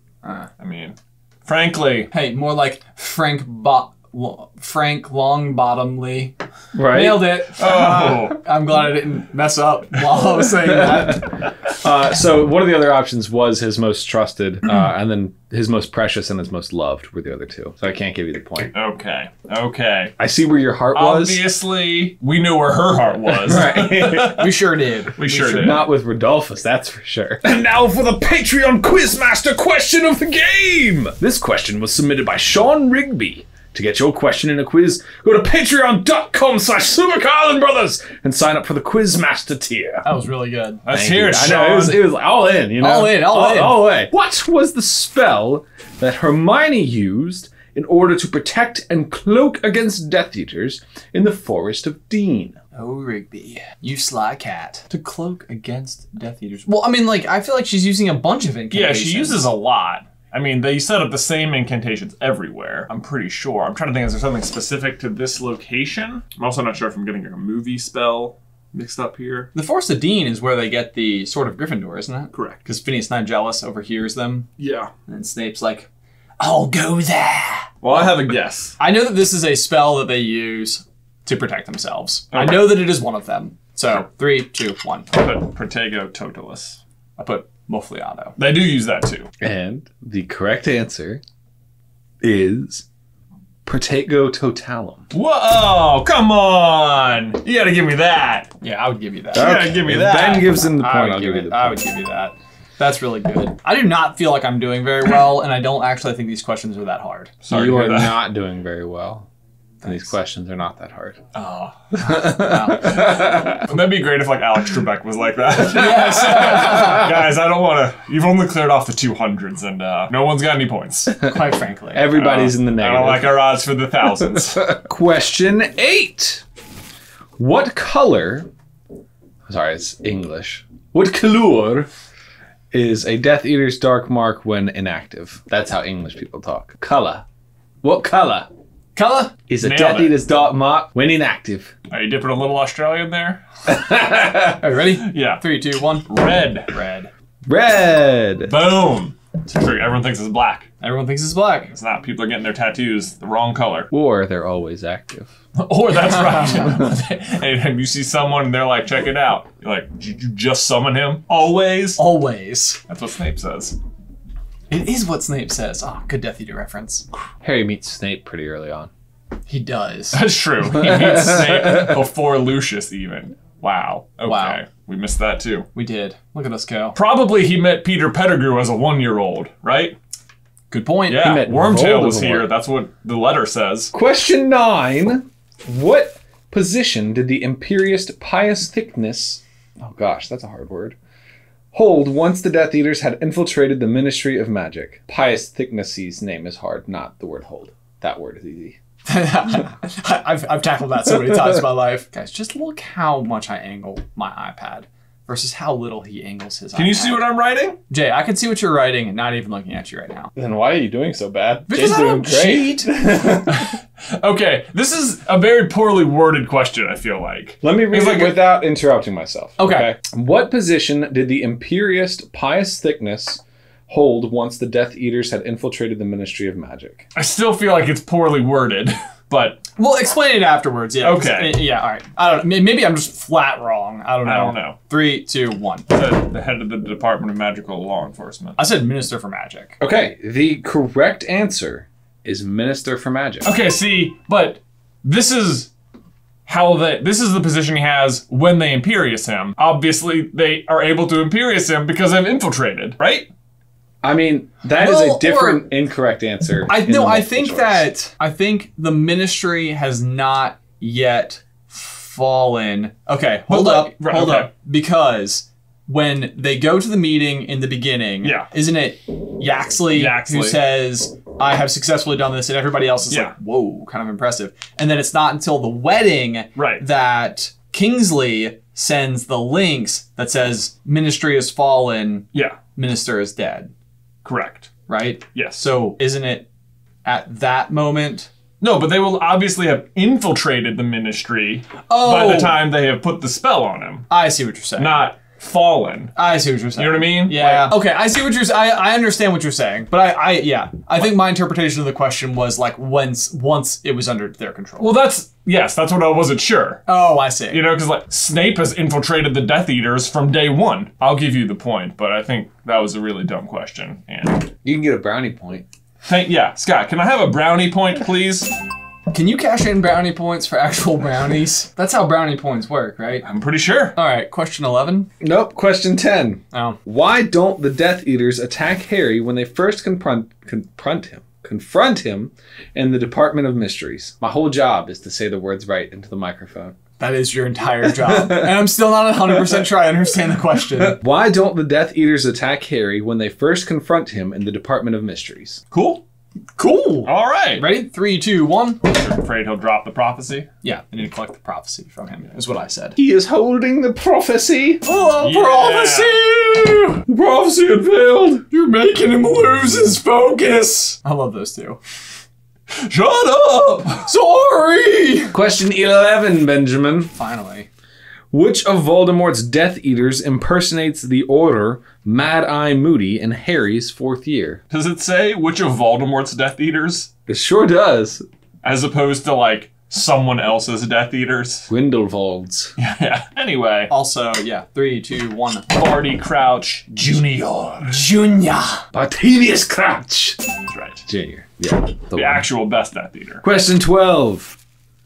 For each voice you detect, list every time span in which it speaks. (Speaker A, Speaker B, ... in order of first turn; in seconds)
Speaker A: 0.2-0.5, 2.1-11.4, 24.2-25.9, 40.0-40.8, 42.8-43.9, 52.7-59.5, 69.5-74.5, 75.1-75.9, 76.4-78.1, 78.8-85.1, 87.2-88.3, 98.6-99.5, 100.6-107.3, 109.8-110.1, 112.0-113.0, 115.7-117.1, 121.2-122.1, 138.9-139.3, 144.6-147.1, 150.8-151.7, 156.1-156.8, 162.0-162.8, 164.7-167.1, 169.5-170.2, 174.2-174.6, 175.7-176.9, 180.7-181.4, 199.1-207.3, 207.9-210.3, 211.7-212.9, 219.6-219.9, 229.8-235.9, 238.6-239.8, 254.8-255.7, 256.7-283.7, 284.9-286.5, 287.0-288.3, 291.9-292.6, 294.1-295.1, 296.1-304.9, 306.9-307.7, 319.1-323.3, 323.9-325.1, 326.5-326.8, 337.0-341.0, 346.6-348.8, 350.6-353.0, 354.8-357.0, 358.5-361.8, 364.0-365.4, 367.1-367.7, 383.9-385.8, 387.9-388.8
Speaker B: 0.6-2.1, 7.6-8.4, 18.7-20.1, 20.9-24.5, 25.1-25.8, 40.8-42.0, 58.7-69.5, 72.3-72.6, 74.6-74.9, 77.8-78.8, 82.3-82.8, 85.1-86.8, 88.4-89.3, 95.1-98.5, 99.3-100.5, 107.4-108.2, 111.3-111.8, 112.8-121.1, 122.1-124.7, 139.6-140.2, 141.9-143.4, 144.9-146.7, 148.5-150.7, 151.7-153.9, 155.6-162.0, 162.9-163.8, 170.1-175.7, 176.9-179.9, 181.1-183.9, 206.7-207.8, 213.4-218.4, 227.1-229.6, 231.0-231.7, 234.2-234.8, 235.9-238.6, 243.4-245.7, 246.4-253.3, 263.5-264.5, 268.2-268.5, 269.9-270.6, 276.6-276.8, 284.2-284.7, 285.3-285.7, 288.6-294.1, 294.8-296.2, 296.7-297.8, 304.8-306.8, 307.5-314.5, 316.0-318.5, 323.2-323.9, 345.7-346.0, 347.0-347.6, 348.8-350.5, 355.2-356.2, 362.8-364.1, 374.7-377.1, 378.6-381.7, 382.8-383.9, 385.7-388.1, 390.7-391.1, 392.1-393.4
Speaker C: 6.7-7.4, 10.6-18.7, 20.2-21.4, 23.4-24.5, 25.6-40.0, 40.9-52.6, 89.4-91.2, 92.2-92.8, 93.6-95.0, 99.3-101.8, 107.5-109.3, 109.8-111.2, 111.9-113.7, 121.9-123.3, 124.5-126.4, 127.4-128.5, 129.5-131.9, 132.7-137.2, 137.8-138.5, 139.5-141.7, 143.7-144.6, 147.5-148.5, 153.9-155.3, 167.4-168.9, 170.9-171.9, 181.2-182.5, 183.9-190.9, 191.7-198.8, 210.3-213.7, 217.6-227.1, 239.8-243.5, 254.0-257.9, 314.6-315.6, 325.2-336.8, 338.0-338.7, 340.8-345.6, 352.9-354.8, 357.1-358.4, 365.3-367.1, 368.3-374.6, 377.3-378.2, 381.7-382.7, 388.9-390.4, 391.1-392.4, 393.4-394.6